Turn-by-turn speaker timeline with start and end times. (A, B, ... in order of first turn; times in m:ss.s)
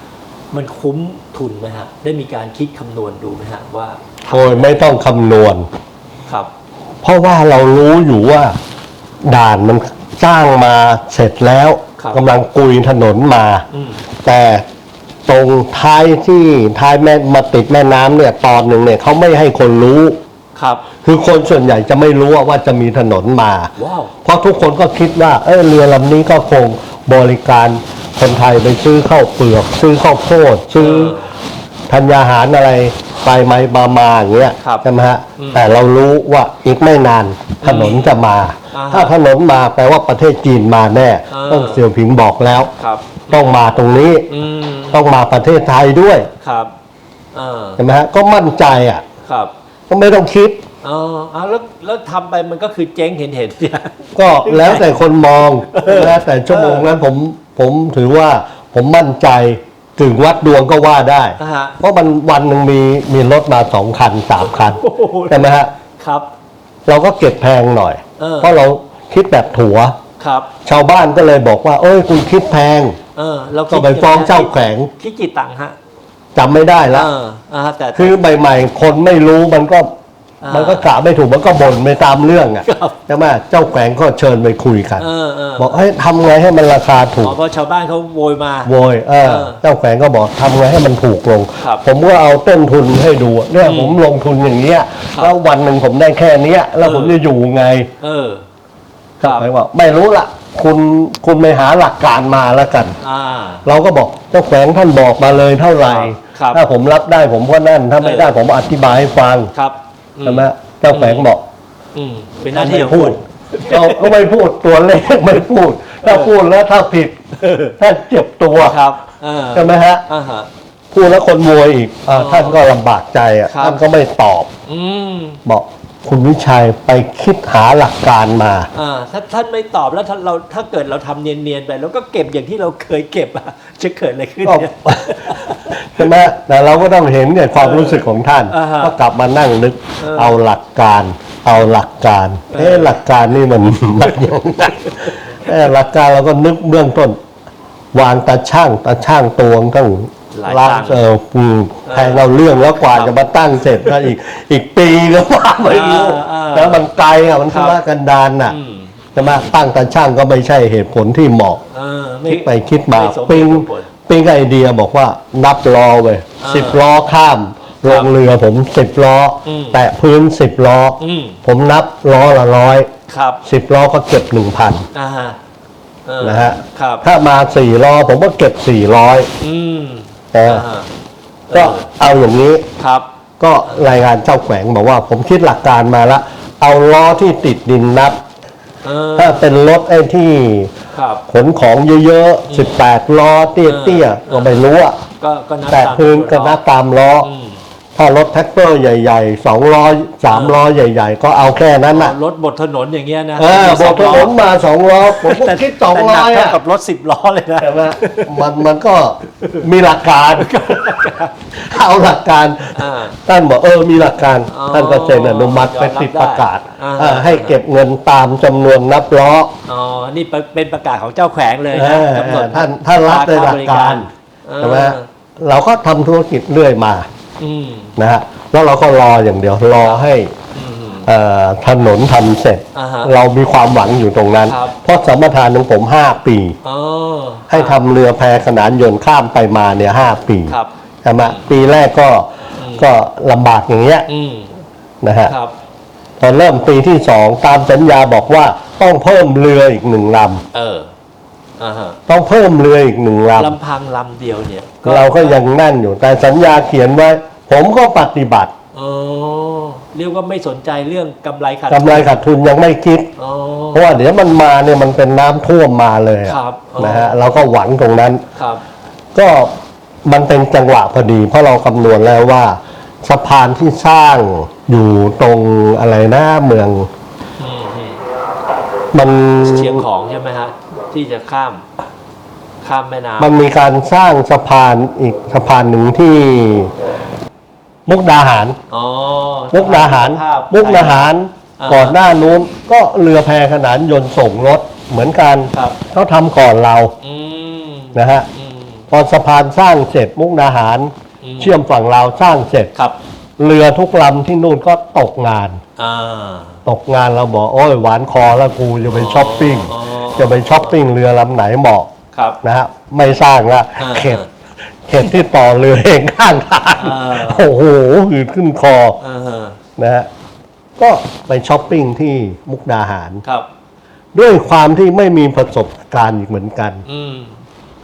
0:00.5-0:04.8 A
0:04.3-0:05.7 B
0:07.0-0:08.6 B
0:09.2-0:13.6 B
0:12.0-0:12.2 A
0:13.7-0:14.0 A
0:14.2-0:14.6 B
0:15.2-0:20.2 B
0:20.6-0:20.8 A
0:21.0-0:23.7 B
0:23.8-0:24.1 A
0:24.2-0:31.2 B
0:30.8-0:31.3 A
0:31.9-0:42.7 B
0:35.4-0:35.7 A
0:37.6-0:38.2 A
0:38.7-0:39.1 A
0:41.3-0:41.9 A
0:42.8-0:43.6 A
0:43.3-0:44.3 B
0:44.3-0:45.2 A
0:44.9-0:46.3 B
0:46.4-0:46.7 A
0:47.3-0:47.8 A
0:47.8-0:49.0 B
0:49.2-0:49.5 A
0:49.9-0:50.6 B
0:50.8-0:54.9 A
0:54.1-1:05.7 B
0:55.4-0:56.9 A
1:01.4-1:01.8 A
1:04.4-1:06.3 A
1:06.8-1:10.0 B
1:08.2-1:08.6 A
1:10.2-1:10.5 A
1:10.6-1:13.0 B
1:13.1-1:15.8 A
1:13.7-1:14.9 B
1:16.3-1:17.1 B
1:16.9-1:18.2 A
1:17.9-1:19.9 B
1:20.4-1:20.9 A
1:20.5-1:25.1 B
1:22.6-1:23.0 A
1:25.0-1:25.8 A
1:25.6-1:27.4 B
1:27.2-1:29.6 A
1:28.6-1:37.9 B
1:33.6-1:34.0 A
1:36.8-1:37.2 A
1:38.0-1:38.4 A
1:39.2-1:43.0 B
1:39.2-1:39.5 A
1:43.0-1:43.6 A
1:43.6-1:49.5 B
1:45.8-1:46.6 A
1:48.0-1:48.3 A
1:49.5-1:51.3 A
1:50.2-1:51.4 B
1:51.9-1:54.2 A
1:52.5-1:57.2 B
1:56.0-1:56.3 A
1:57.4-1:57.7 A
1:57.8-1:58.8 B
1:58.6-2:00.5 A
1:59.5-2:00.0 B
2:00.9-2:04.5 B
2:02.1-2:02.6 A
2:03.5-2:03.8 A
2:04.7-2:05.4 A
2:05.4-2:08.7 B
2:08.7-2:16.3 A
2:14.4-2:27.2 B
2:17.6-2:19.0 A
2:20.0-2:20.4 A
2:22.5-2:23.0 A
2:25.0-2:25.3 A
2:27.9-2:38.6 B
2:30.3-2:31.0 A
2:31.8-2:32.3 A
2:32.9-2:34.0 A
2:35.6-2:36.8 A
2:37.4-2:37.8 A
2:38.5-2:39.5 A
2:39.1-2:41.6 B
2:41.7-2:43.9 A
2:42.3-2:52.9 B
2:46.4-2:46.8 A
2:47.8-2:48.1 A
2:49.4-2:49.8 A
2:51.0-2:51.4 A
2:53.1-2:53.4 A
2:53.4-2:54.9 B
2:54.9-2:55.4 A
2:56.0-2:57.0 A
2:56.2-2:59.3 B
2:59.4-3:00.9 A
3:00.3-3:00.6 B
3:01.5-3:01.9 A
3:01.5-3:02.6 B
3:02.8-3:03.1 A
3:03.4-3:08.2 B
3:08.8-3:09.5 A
3:09.2-3:10.7 B
3:10.9-3:11.2 A
3:11.3-3:15.0 B
3:12.5-3:12.8 A
3:13.6-3:16.6 A
3:15.7-3:17.3 B
3:17.2-3:17.6 A
3:18.0-3:22.1 B
3:20.3-3:20.6 A
3:21.9-3:24.4 A
3:23.4-3:26.6 B
3:25.0-3:28.5 A
3:27.6-3:30.7 B
3:30.3-3:31.5 A
3:31.5-3:39.5 B
3:32.7-3:33.2 A
3:34.5-3:37.6 A
3:39.6-3:45.0 A
3:41.7-3:44.1 B
3:44.6-3:47.1 B
3:47.4-3:47.9 A
3:48.0-3:50.3 B
3:49.8-3:51.1 A
3:51.0-3:56.6 B
3:52.7-3:53.1 A
3:54.4-3:54.8 A
3:56.6-3:57.8 A
3:57.5-4:04.1 B
4:00.5-4:01.5 A
4:02.6-4:02.9 A
4:04.1-4:04.5 A
4:05.0-4:05.3 B
4:05.2-4:05.5 A
4:06.2-4:10.4 B
4:10.5-4:10.9 A
4:11.6-4:12.0 A
4:12.1-4:13.6 B
4:13.4-4:15.4 A
4:14.8-4:18.5 B
4:18.7-4:22.2 A
4:21.7-4:23.1 B
4:23.2-4:24.0 A
4:23.7-4:28.2 B
4:26.2-4:27.2 A
4:28.3-4:28.6 A
4:29.1-4:29.5 B
4:30.0-4:36.9 B
4:37.4-4:38.0 A
4:38.9-4:39.8 B
4:39.4-4:41.6 A
4:42.6-4:43.3 A
4:43.2-4:46.7 B
4:47.8-4:48.6 B
4:48.7-4:52.0 A
4:49.5-4:56.9 B
4:55.5-4:55.8 A
4:57.0-4:58.8 A
4:57.9-4:58.3 B
4:58.9-5:02.7 B
5:01.2-5:01.6 A
5:03.4-5:05.6 B
5:05.8-5:06.6 A
5:06.6-5:11.9 B
5:08.9-5:10.8 A
5:12.1-5:12.4 A
5:12.4-5:14.2 B
5:13.8-5:14.3 A
5:14.9-5:19.0 B
5:16.8-5:17.5 A
5:19.0-5:19.6 A
5:19.8-5:20.1 B
5:20.8-5:23.2 B
5:24.1-5:26.8 B
5:26.8-5:27.4 A